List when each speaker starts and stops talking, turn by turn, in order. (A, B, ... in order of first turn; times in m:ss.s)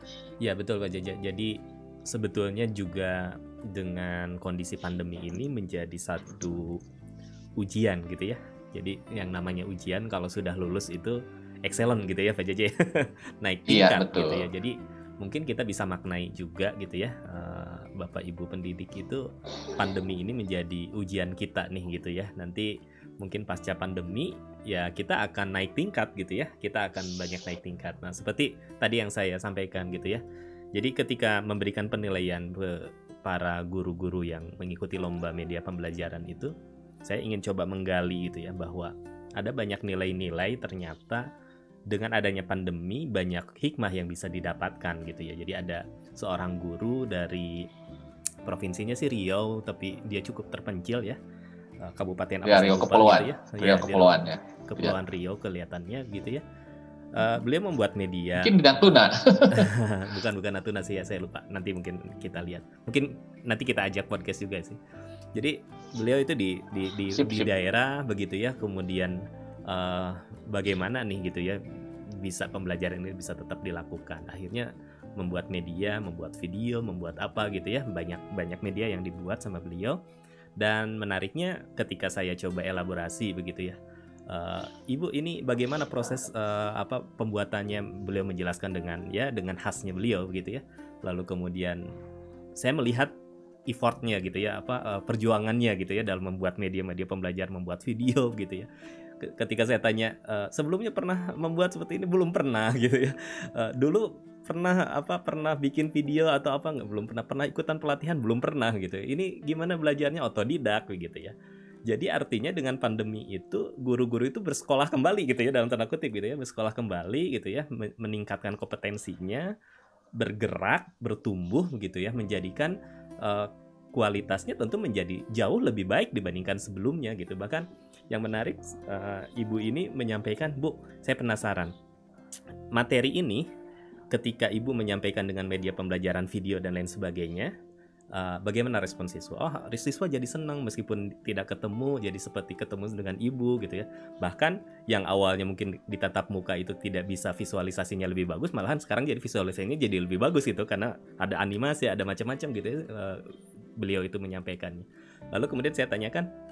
0:00.4-0:06.8 A
0:07.6-0:30.2 A
0:13.7-0:14.4 B
0:30.8-0:36.5 A
0:37.0-0:41.3 A
0:41.9-0:47.7 A
0:48.4-0:51.2 A
0:51.8-0:56.4 A
0:52.4-0:55.0 B
0:57.1-0:58.6 A
0:58.4-0:59.7 B
0:59.5-1:04.8 A
1:05.4-1:11.6 A
1:07.2-1:07.5 B
1:12.2-1:20.0 A
1:20.6-1:23.8 A
1:24.3-1:31.8 A
1:32.6-1:33.1 A
1:33.7-1:38.7 A
1:39.2-1:51.3 A
1:51.9-1:59.5 A
2:00.2-2:11.7 A
2:12.7-2:13.5 A
2:14.1-2:17.5 A
2:18.2-2:36.3 A